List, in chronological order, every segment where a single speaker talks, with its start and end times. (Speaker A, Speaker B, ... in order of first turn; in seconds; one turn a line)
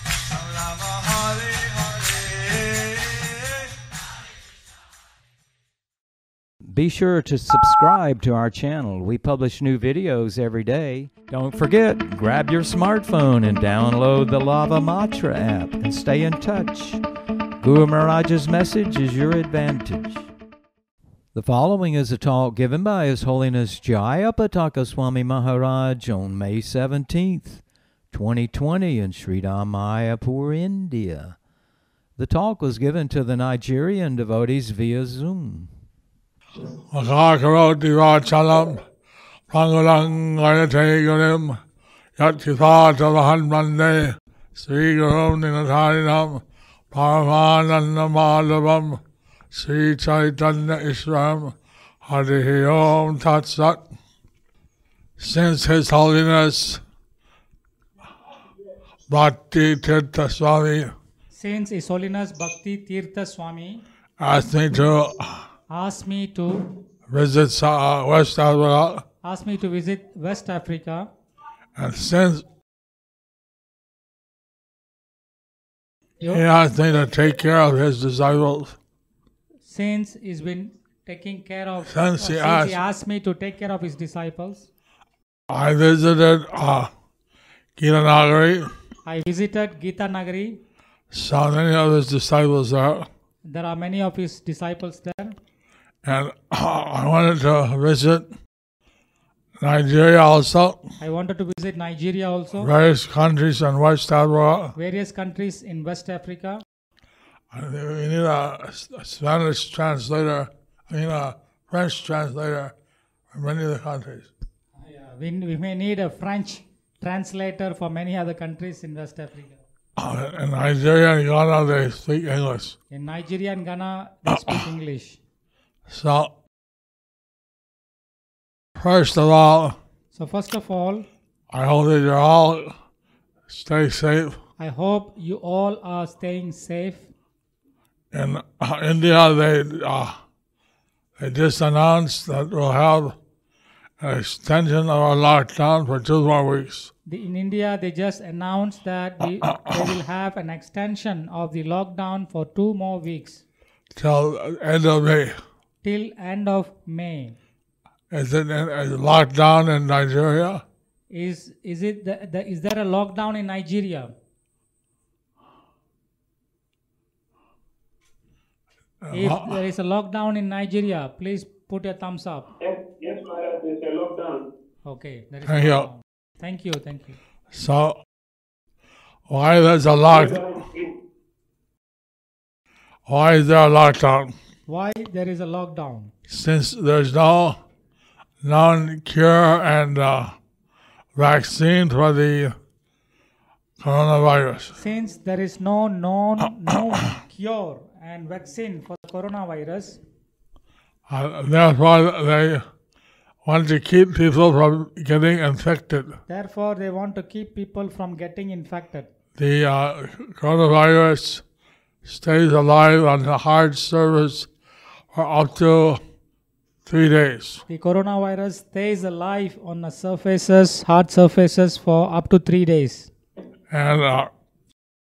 Speaker A: 0.2-3.7
Speaker B: 6.7-17.0
Speaker B: 17.6-20.3
Speaker B: 21.3-31.4
Speaker B: 32.2-35.7
Speaker C: 36.9-38.8
Speaker C: 39.5-41.6
Speaker C: 42.2-49.0
Speaker C: 49.5-53.8
Speaker C: 55.2-56.8
Speaker C: 59.1-60.9
Speaker D: 61.3-63.8
Speaker C: 64.2-65.5
Speaker D: 65.7-66.7
Speaker C: 67.1-69.0
Speaker D: 69.2-71.1
Speaker C: 71.8-72.5
Speaker C: 76.2-78.8
Speaker D: 79.7-84.7
Speaker C: 81.8-82.8
Speaker C: 85.5-86.9
Speaker C: 87.8-88.7
Speaker D: 89.1-90.6
Speaker C: 91.1-93.1
Speaker D: 93.5-95.4
Speaker C: 96.0-98.3
Speaker C: 99.6-100.8
Speaker D: 101.0-102.7
Speaker C: 102.6-104.8
Speaker D: 104.8-106.6
Speaker C: 107.5-112.7
Speaker C: 113.3-114.3
Speaker D: 114.8-119.6
Speaker C: 120.0-122.8
Speaker D: 122.9-125.2
Speaker C: 125.9-126.3
Speaker C: 128.8-129.8
Speaker D: 130.1-131.1
Speaker C: 131.5-132.7
Speaker C: 133.5-134.4
Speaker D: 134.6-137.1
Speaker C: 138.1-140.2
Speaker C: 141.2-143.2
Speaker C: 144.0-146.9
Speaker D: 147.1-153.4
Speaker C: 149.5-149.9
Speaker C: 153.9-155.4
Speaker D: 155.8-157.4
Speaker C: 158.1-160.6
Speaker D: 161.1-164.1
Speaker C: 169.0-169.6
Speaker D: 169.1-172.5
Speaker E: 172.6-174.5
Speaker D: 174.8-177.2
Speaker C: 175.5-175.9
Speaker C: 177.5-178.0
Speaker C: 179.3-180.4
Speaker E: 180.1-180.9
Speaker C: 183.1-184.3
Speaker D: 184.7-186.1
Speaker C: 186.3-187.6
Speaker C: 188.4-190.4
Speaker C: 191.2-192.6
Speaker C: 193.8-194.8
Speaker D: 194.8-200.0
Speaker C: 201.1-202.7
Speaker C: 203.4-206.2
Speaker D: 206.3-209.1
Speaker C: 209.4-211.4
Speaker C: 212.0-214.5
Speaker C: 215.1-216.0
Speaker C: 216.8-217.7
Speaker D: 217.7-223.1
Speaker C: 223.7-224.3